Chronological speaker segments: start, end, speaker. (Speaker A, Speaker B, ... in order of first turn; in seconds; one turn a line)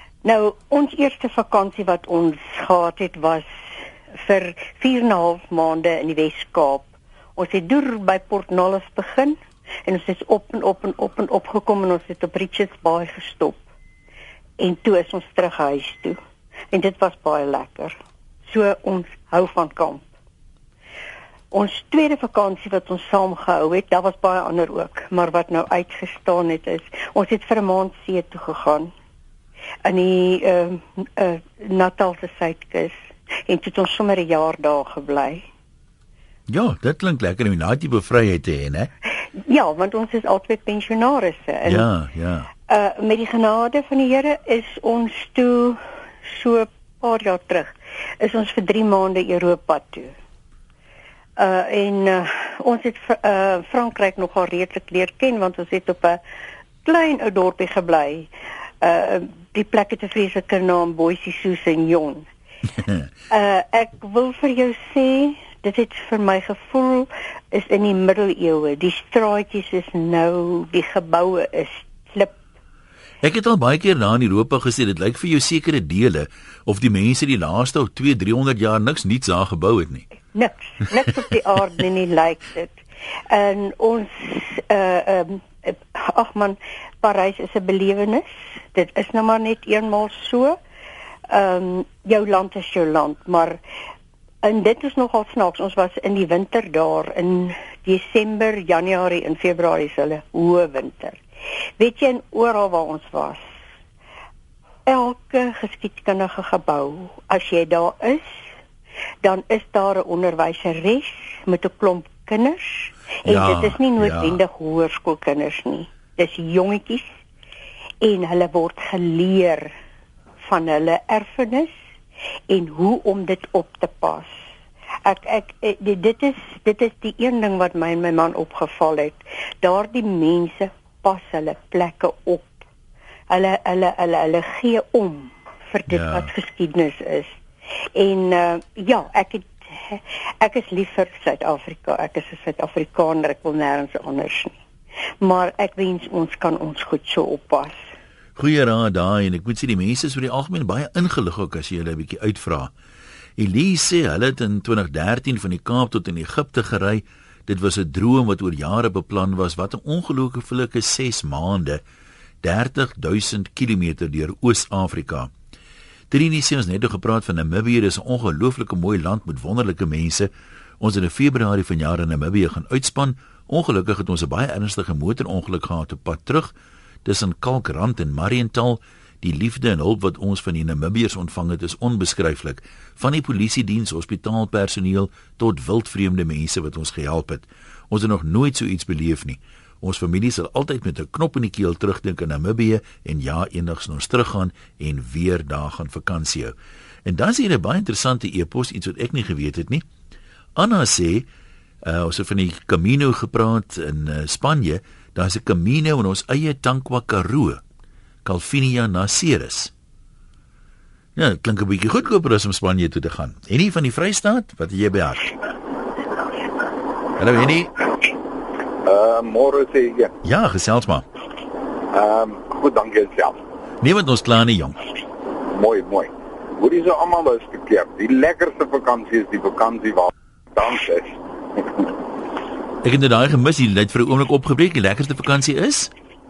Speaker A: 0.2-13.6
Speaker A: 14.6-16.2
Speaker A: 16.7-18.0
Speaker A: 18.5-20.0
Speaker A: 21.5-28.9
Speaker A: 29.8-35.5
Speaker B: 36.5-38.9
Speaker A: 39.4-41.9
Speaker B: 41.6-42.5
Speaker A: 42.7-50.1
Speaker A: 51.4-56.2
Speaker A: 56.9-62.3
Speaker A: 63.3-72.4
Speaker B: 73.2-80.1
Speaker A: 80.3-82.8
Speaker A: 83.3-90.6
Speaker A: 91.3-93.6
Speaker A: 94.4-101.2
Speaker A: 101.8-103.5
Speaker A: 104.9-108.4
Speaker A: 109.2-117.2
Speaker B: 113.2-114.4
Speaker A: 118.0-119.8
Speaker A: 120.4-121.7
Speaker A: 122.5-124.4
Speaker A: 125.0-132.5
Speaker A: 133.3-137.4
Speaker B: 135.9-136.3
Speaker A: 137.9-144.6
Speaker A: 145.2-147.8
Speaker B: 148.4-152.7
Speaker B: 153.4-161.8
Speaker B: 162.4-165.3
Speaker B: 166.1-170.3
Speaker B: 170.8-176.5
Speaker B: 177.1-196.6
Speaker B: 197.1-199.8
Speaker B: 200.6-201.3
Speaker B: 201.8-207.6
Speaker B: 208.2-209.7
Speaker B: 211.2-215.3
Speaker B: 217.2-217.7
Speaker C: 218.8-220.1
Speaker B: 220.2-221.1
Speaker C: 221.9-223.4
Speaker B: 223.8-224.8
Speaker C: 225.5-231.9
Speaker B: 232.8-235.9